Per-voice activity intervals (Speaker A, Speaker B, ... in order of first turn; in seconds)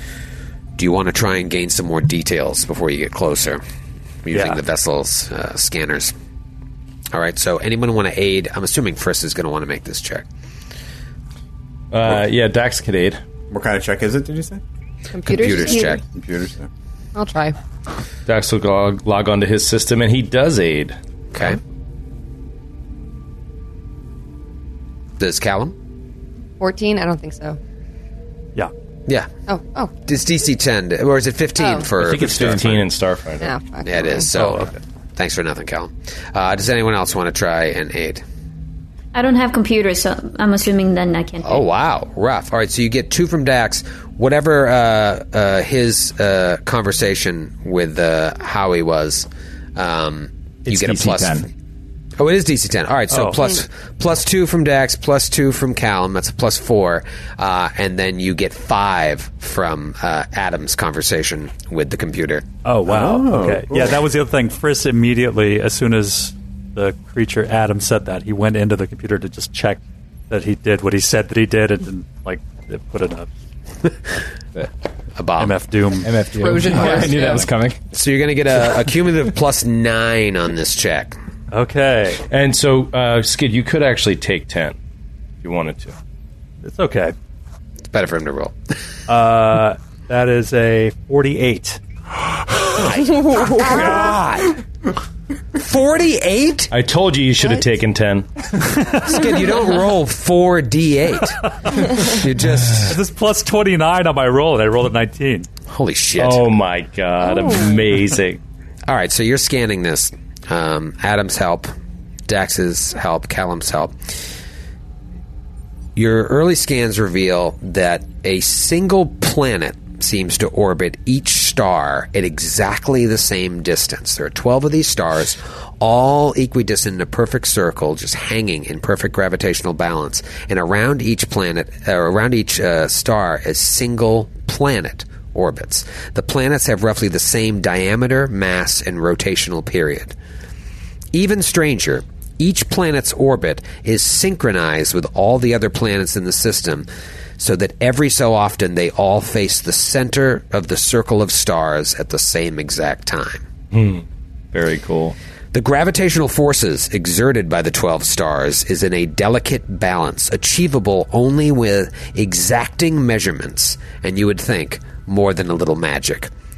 Speaker A: 0.8-3.6, 4.2-6.1, 7.1-10.2, 15.2-16.0, 21.3-21.6, 25.2-25.7, 30.0-32.9, 33.8-38.2, 41.4-51.5, 52.2-62.4, 75.2-75.6, 77.9-81.2, 87.9-88.5, 92.7-94.6, 95.5-96.7, 99.0-103.0, 105.7-106.4, 108.9-111.7, 112.3-114.0, 115.9-140.1, 141.1-153.4, 155.5-166.3
Speaker B: 4.3-4.6, 34.3-34.8, 53.1-53.5, 62.6-73.3, 75.4-77.5, 81.5-82.2, 86.6-87.1, 89.1-91.8, 102.8-105.5
Speaker C: 11.9-13.2, 18.2-21.0, 32.0-33.5, 82.3-84.8, 85.4-85.9, 96.7-98.3, 106.2-108.4, 153.7-155.2
Speaker D: 13.5-14.6, 16.0-16.7, 62.9-64.0
Speaker E: 15.1-16.0, 17.1-17.6, 26.6-27.6, 29.5-29.9, 31.6-31.9, 33.4-34.3, 76.4-77.4
Speaker F: 39.1-41.6
Speaker G: 50.6-51.5, 76.0-77.8